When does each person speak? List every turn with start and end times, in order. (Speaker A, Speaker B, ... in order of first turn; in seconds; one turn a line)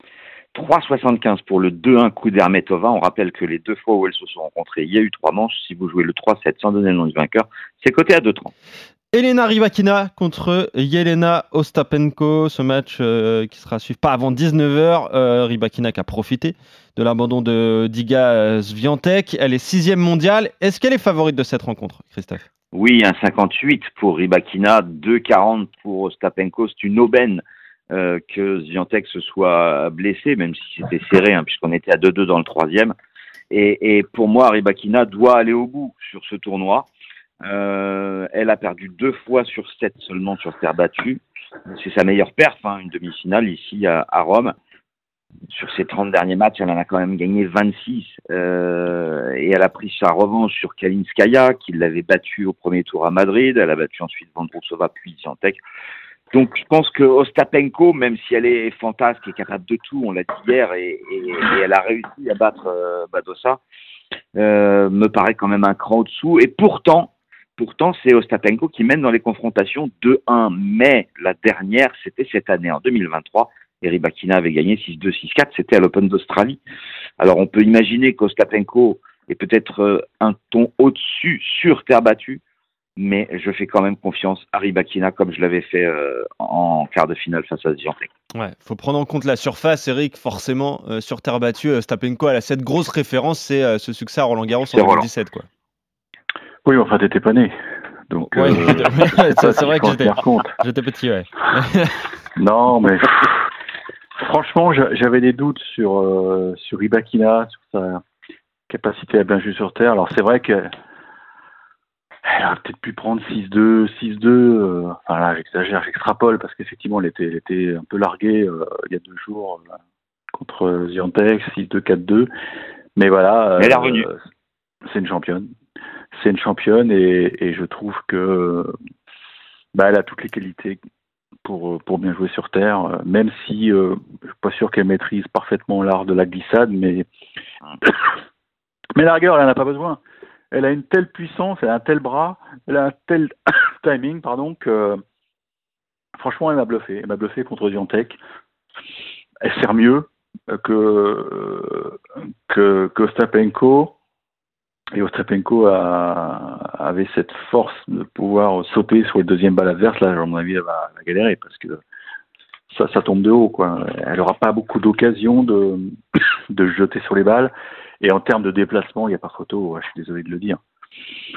Speaker A: 0.5-8.5
Speaker B: 9.1-22.5
Speaker A: 22.7-32.9
Speaker A: 33.5-36.9
Speaker A: 37.4-44.5
Speaker A: 45.5-55.6
Speaker A: 56.3-63.6
Speaker A: 64.3-76.6
Speaker A: 77.2-82.4
Speaker A: 83.0-88.1
Speaker B: 88.3-95.5
Speaker A: 94.7-95.0
Speaker C: 96.6-97.5
Speaker C: 98.1-100.5
Speaker B: 98.2-102.0
Speaker C: 102.4-103.5
Speaker C: 104.2-108.0
Speaker C: 108.7-110.7
Speaker C: 112.2-119.6
Speaker C: 120.3-122.3
Speaker C: 123.0-124.2
Speaker A: 123.6-124.1
Speaker C: 124.9-125.5
Speaker C: 126.1-128.7
Speaker C: 129.7-130.8
Speaker C: 131.4-137.1
Speaker C: 137.8-138.2
Speaker C: 138.9-140.0
Speaker C: 140.5-145.0
Speaker C: 146.2-148.2
Speaker C: 149.4-153.9
Speaker C: 154.9-161.8
Speaker C: 162.7-170.6